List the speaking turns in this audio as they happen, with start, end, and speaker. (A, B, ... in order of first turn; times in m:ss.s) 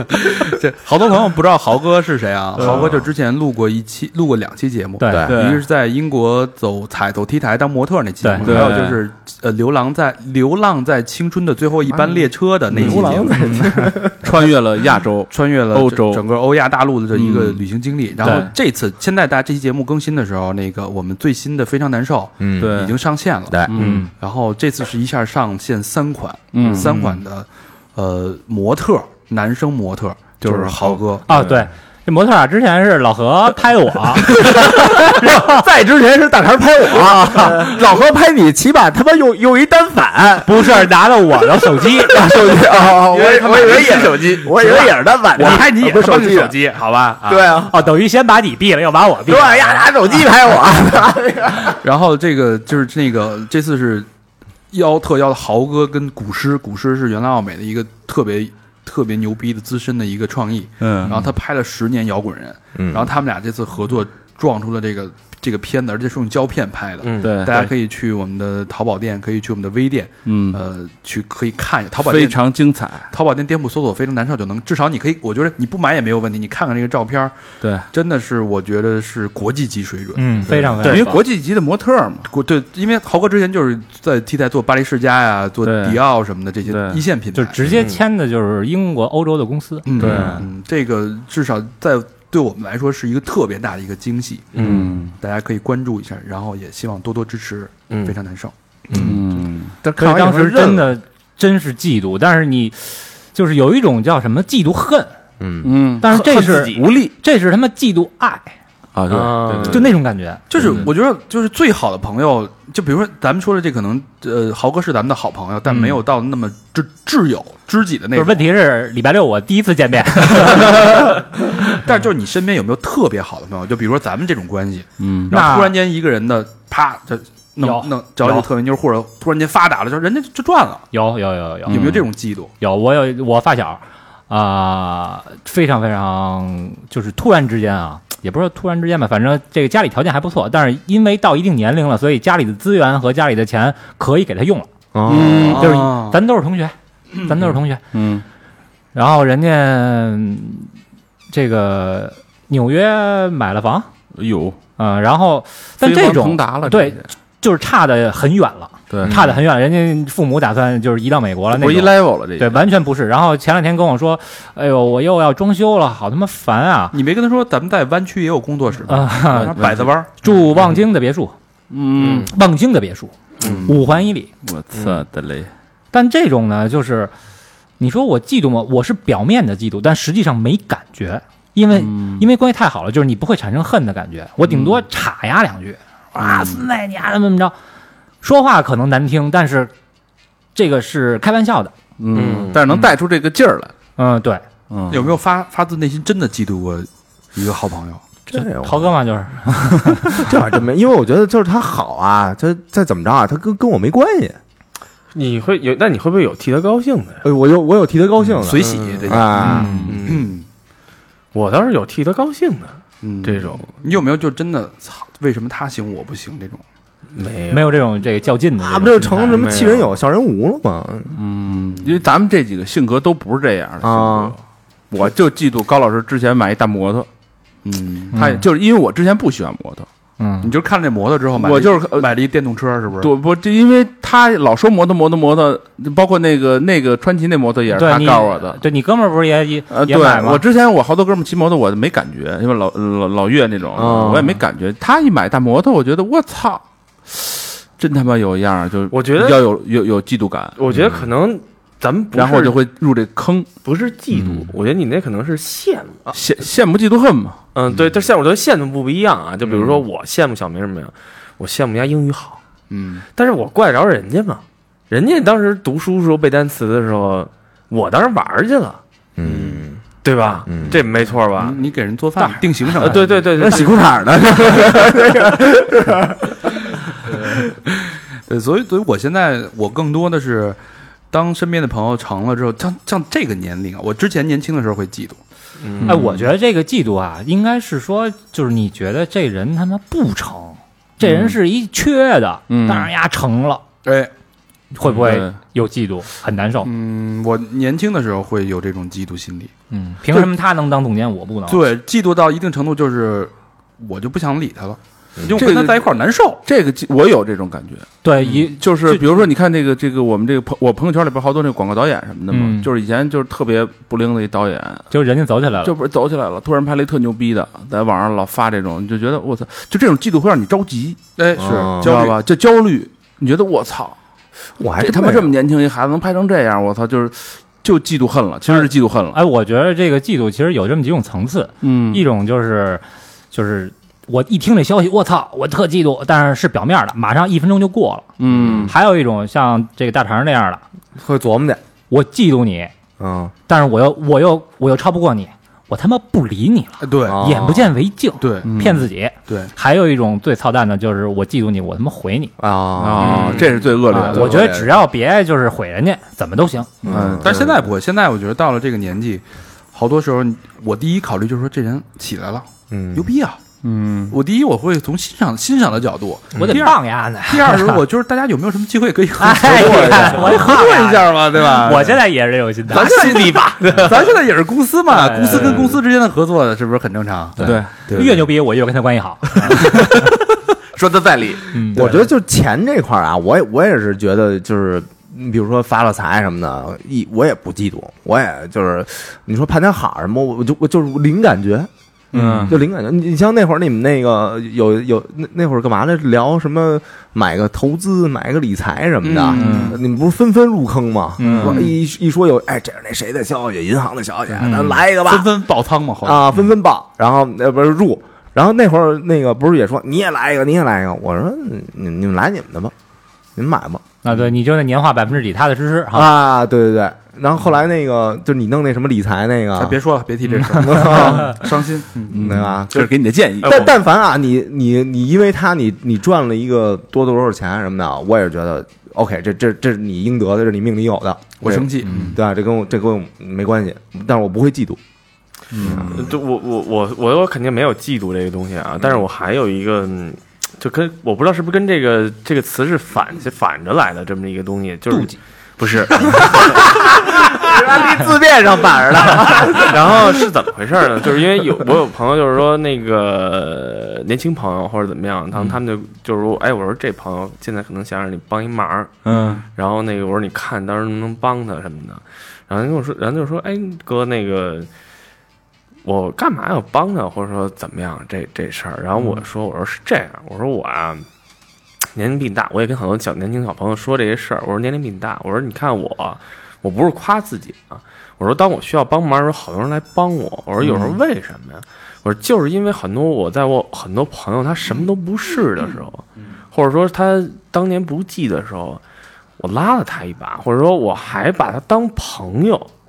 0:00.1-0:14.0 A
0:02.6-0:03.0 B
0:05.0-0:05.3 C
0:05.1-0:05.4 D
0:05.3-0:05.6 B
0:08.2-0:08.5 C
0:08.4-0:09.0 B
0:12.0-0:14.1 D
0:14.2-0:16.2 B
0:15.3-0:31.3 A
0:17.1-0:17.6 B
0:18.2-0:18.5 B
0:18.2-0:18.5 C
0:22.4-0:22.8 D
0:22.6-0:23.0 B
0:23.7-0:24.1 B
0:23.8-0:24.1 C
0:26.5-0:27.0 B
0:26.7-0:27.2 D
0:30.4-0:31.7 B
0:31.3-0:35.6 C
0:34.3-0:40.7 D
0:37.3-0:37.6 C
0:40.4-0:42.2 C
0:41.7-0:46.6 D
0:43.1-0:44.5 B
0:43.6-0:47.5 A
0:47.2-0:47.8 D
0:47.6-0:50.0 C
0:49.3-0:51.8 D
0:51.8-0:54.1 A
0:54.7-1:12.5 A
1:00.8-1:01.3 B
1:02.8-1:03.1 D
1:07.0-1:07.3 E
1:07.2-1:07.7 B
1:10.2-1:10.6 B
1:12.0-1:13.1 B
1:13.1-1:20.6 A
1:17.6-1:17.9 B
1:20.2-1:21.2 C
1:20.4-1:22.3 B
1:22.3-1:27.6 A
1:25.6-1:26.0 B
1:26.6-1:27.0 B
1:27.3-1:30.4 C
1:27.7-1:28.0 E
1:29.9-1:38.5 A
1:30.0-1:30.4 B
1:34.5-1:34.9 E
1:34.6-1:35.2 B
1:37.9-1:38.2 E
1:38.9-1:40.9 D
1:38.9-1:39.8 B
1:40.0-1:45.1 C
1:45.4-1:45.8 D
1:45.6-1:47.1 B
1:46.0-1:48.6 C
1:46.1-1:46.9 E
1:48.9-1:50.0 B
1:49.1-1:49.9 E
1:49.7-1:50.5 C
1:50.5-1:58.4 A
1:50.6-1:50.9 B
1:58.1-2:01.1 C
2:00.5-2:10.9 A
2:05.0-2:05.3 B
2:05.3-2:05.8 C
2:07.6-2:08.5 C
2:10.9-2:12.0 C
2:11.7-2:12.1 B
2:11.7-2:12.5 A
2:12.6-2:27.8 C
2:24.9-2:25.6 D
2:25.1-2:25.8 B
2:25.4-2:26.2 A
2:27.9-2:28.2 B
2:29.0-2:30.7 C
2:31.3-2:33.9 C
2:34.1-2:34.6 B
2:34.8-2:47.0 C
2:35.8-2:37.1 B
2:38.9-2:39.3 B
2:39.0-2:39.3 D
2:41.5-2:42.6 B
2:46.9-2:50.1 A
2:48.9-2:49.6 C
2:49.3-2:49.9 B
2:50.2-2:51.3 C
2:51.7-2:52.3 B
2:52.0-2:52.3 E
2:52.1-2:54.3 C
2:53.4-2:53.7 E
2:53.4-2:53.8 B
2:54.4-2:55.5 B
2:54.7-2:55.0 E
2:55.9-2:57.1 C
2:57.8-3:07.5 C
3:01.7-3:02.3 B
3:04.5-3:04.8 B
3:06.4-3:06.6 B
3:08.2-3:09.7 C
3:10.6-3:11.7 C
3:12.0-3:13.7 B
3:12.1-3:12.6 E
3:14.0-3:14.4 C
3:14.7-3:15.2 B
3:14.9-3:18.0 A
3:18.3-3:18.9 D
3:18.3-3:20.3 C
3:20.1-3:24.4 D
3:25.1-3:27.2 E
3:27.2-3:29.8 D
3:28.4-3:30.5 A
3:28.5-3:30.3 E
3:29.4-3:30.0 B
3:29.4-3:29.9 C
3:31.3-3:33.7 E
3:33.0-3:36.6 A
3:37.2-3:37.8 E
3:37.5-3:39.6 C
3:38.6-3:41.2 D
3:39.3-3:39.9 E
3:41.1-3:47.1 B
3:43.8-3:44.3 D
3:47.6-3:48.2 A
3:48.1-3:48.4 C
3:48.1-3:49.9 B
3:50.2-3:50.5 C
3:50.4-3:53.1 A
3:51.4-3:52.1 B
3:53.0-3:58.6 B
3:57.7-4:00.4 C
3:59.7-4:11.0 B
4:03.8-4:04.4 D
4:08.9-4:09.5 E
4:10.6-4:12.6 E
4:12.2-4:13.5 B
4:13.6-4:16.0 E
4:14.1-4:14.5 B
4:16.1-4:17.4 B
4:17.6-4:22.4 E
4:19.5-4:19.8 B
4:22.7-4:23.0 A
4:23.2-4:31.6 E
4:29.2-4:29.8 D
4:30.5-4:30.8 D
4:31.4-4:33.6 A
4:32.8-4:33.8 E
4:33.3-4:36.5 D
4:38.3-4:40.6 A
4:41.1-4:45.2 A
4:45.6-4:46.2 E
4:45.8-4:46.2 B
4:45.8-4:53.6 C
4:51.0-4:51.4 B
4:52.5-4:52.9 B
4:53.8-4:54.1 A
4:54.7-4:56.7 C
4:54.8-4:55.4 B
4:56.6-4:59.5 A
4:59.7-5:01.6 C
5:01.5-5:06.4 A
5:05.2-5:05.5 D
5:05.4-5:05.9 B
5:06.5-5:14.9 B
5:08.0-5:09.1 C
5:12.3-5:12.7 C
5:14.9-5:15.7 C
5:15.6-5:24.0 B
5:21.2-5:22.2 A
5:21.4-5:22.0 D
5:24.6-5:25.3 D
5:24.8-5:29.2 B
5:28.5-5:40.6 C
5:31.6-5:32.0 B
5:38.2-5:38.7 B
5:38.3-5:38.7 D
5:41.0-5:41.6 D
5:41.9-5:42.7 C
5:43.0-5:43.3 D
5:43.5-5:52.3 C
5:46.8-5:47.2 A
5:47.0-5:47.8 D
5:48.2-5:48.5 A
5:48.4-5:48.9 B
5:52.4-5:53.4 D
5:52.8-5:54.5 B
5:53.0-5:56.8 C
5:53.1-5:53.7 A
5:54.1-5:54.7 D
5:56.8-5:57.5 D
5:56.9-5:57.5 B
5:56.9-6:03.4 A
6:02.7-6:03.1 D
6:03.6-6:04.2 B
6:04.1-6:12.0 A
6:06.4-6:07.8 C
6:09.2-6:13.0 C
6:09.4-6:10.6 D
6:10.4-6:10.8 B
6:12.7-6:18.2 A
6:12.7-6:14.1 E
6:14.9-6:15.7 C
6:17.4-6:20.1 C
6:17.4-6:18.2 B
6:19.6-6:20.0 B
6:20.8-6:21.6 B
6:21.5-6:22.0 C
6:21.7-6:31.7 D
6:32.1-6:32.5 C
6:32.1-6:32.6 B
6:32.4-6:45.3 D
6:39.0-6:39.8 A
6:39.3-6:39.8 B
6:41.2-6:41.6 C
6:41.2-6:41.6 B
6:41.4-6:41.7 A
6:44.4-6:44.8 C
6:45.0-6:46.3 A
6:46.0-6:52.7 D
6:53.4-6:53.8 D
6:54.0-6:56.1 C
6:55.9-6:59.8 D
6:59.6-7:02.4 A
7:00.5-7:01.4 D
7:01.0-7:01.3 B
7:02.1-7:03.7 B
7:02.1-7:14.8 D
7:11.4-7:12.2 A
7:11.9-7:12.2 B
7:15.5-7:16.1 B
7:15.6-7:16.1 D
7:15.8-7:26.6 E
7:24.9-7:25.2 C
7:25.9-7:26.4 C
7:26.2-7:30.1 D
7:29.3-7:44.7 E
7:39.0-7:39.4 B
7:45.8-7:51.1 E
7:51.9-8:08.8 E
8:09.4-8:12.7 E